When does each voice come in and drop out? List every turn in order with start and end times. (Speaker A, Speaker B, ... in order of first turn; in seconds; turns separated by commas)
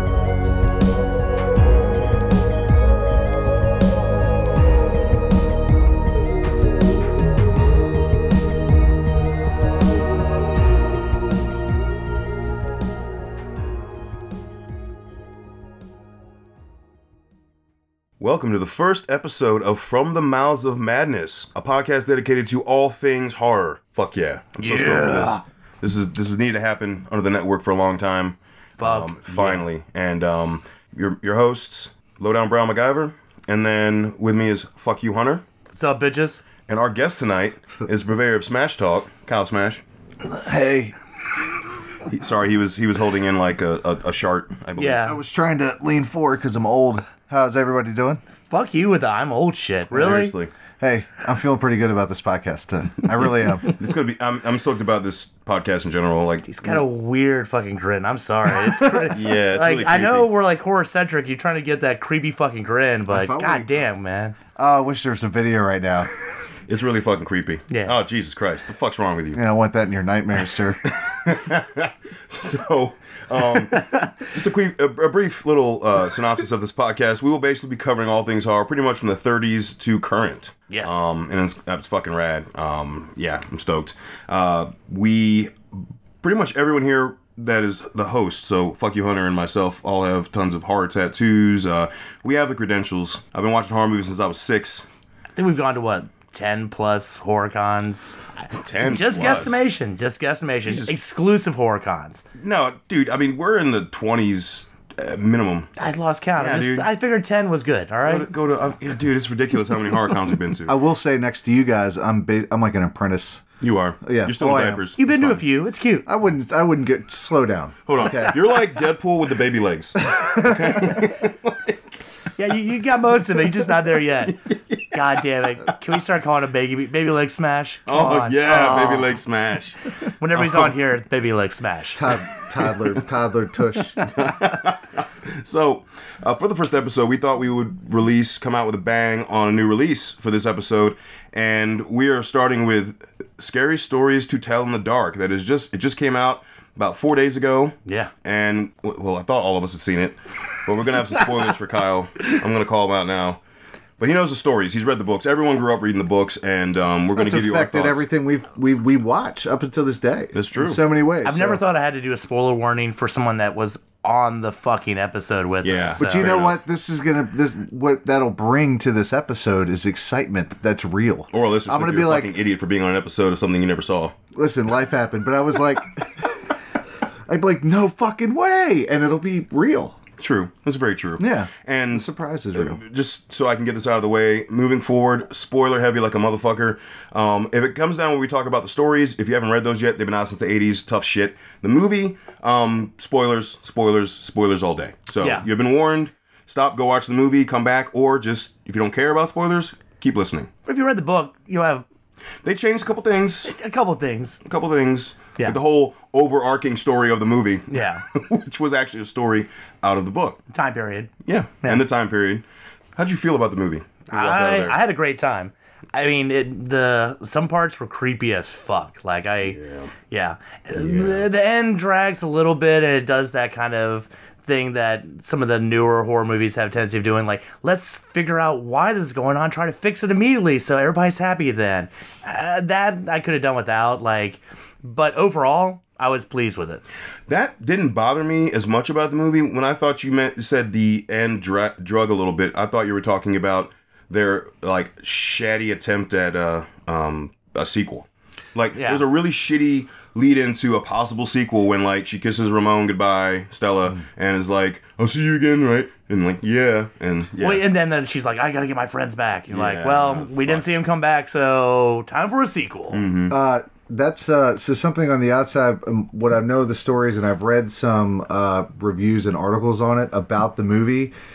Speaker A: 18.2-35.4, Speaker B: 24.6-25.4, Speaker B: 28.8-29.6, Speaker B: 35.7-36.4, Speaker A: 36.7-39.8, Speaker C: 40.2-40.9, Speaker A: 42.0-45.0, Speaker B: 44.8-45.2, Speaker C: 45.0-48.2, Speaker B: 48.5-50.3, Speaker C: 49.9-50.2, Speaker A: 49.9-50.5, Speaker C: 50.8-53.7, Speaker A: 53.7-56.8, Speaker B: 56.4-64.3, Speaker A: 59.1-60.3, Speaker C: 63.1-63.7, Speaker C: 64.5-66.1, Speaker A: 66.7-69.4, Speaker C: 69.3-70.8, Speaker A: 70.8-85.5, Speaker B: 73.7-74.0, Speaker B: 80.7-81.1, Speaker A: 86.2-94.9, Speaker B: 95.3-98.2, Speaker A: 98.6-99.6, Speaker B: 98.8-102.2, Speaker A: 100.6-100.9, Speaker A: 102.4-105.7, Speaker B: 105.8-108.3, Speaker A: 106.4-106.9, Speaker A: 108.0-110.8, Speaker C: 110.7-113.4, Speaker A: 113.6-115.4, Speaker C: 114.0-114.8, Speaker B: 115.0-116.0, Speaker C: 116.0-118.4, Speaker A: 117.8-121.8, Speaker C: 120.0-121.0, Speaker B: 122.4-124.4, Speaker A: 124.2-125.1, Speaker B: 124.9-129.2, Speaker A: 127.9-130.7, Speaker B: 130.2-132.0, Speaker C: 131.9-134.0, Speaker A: 134.0-153.4, Speaker B: 147.8-148.1, Speaker A: 154.0-158.0, Speaker C: 157.1-161.6, Speaker A: 160.3-160.8, Speaker B: 161.2-166.3, Speaker A: 165.6-166.6, Speaker C: 166.0-172.3, Speaker A: 171.3-174.1, Speaker C: 174.3-176.5, Speaker C: 177.3-180.0, Speaker A: 180.2-200.5, Speaker C: 181.2-182.8, Speaker B: 195.2-195.4, Speaker B: 200.7-201.8, Speaker A: 202.4-203.5, Speaker B: 203.4-204.4, Speaker A: 204.4-210.4, Speaker B: 207.7-208.0, Speaker B: 210.5-211.1, Speaker A: 211.2-212.4, Speaker A: 212.9-214.8, Speaker B: 214.1-219.6, Speaker A: 219.4-219.9, Speaker B: 220.1-236.8, Speaker A: 220.7-221.3, Speaker A: 237.3-257.6, Speaker B: 248.8-249.0, Speaker B: 257.4-263.0, Speaker A: 259.5-260.6, Speaker A: 262.9-263.4, Speaker C: 263.3-271.1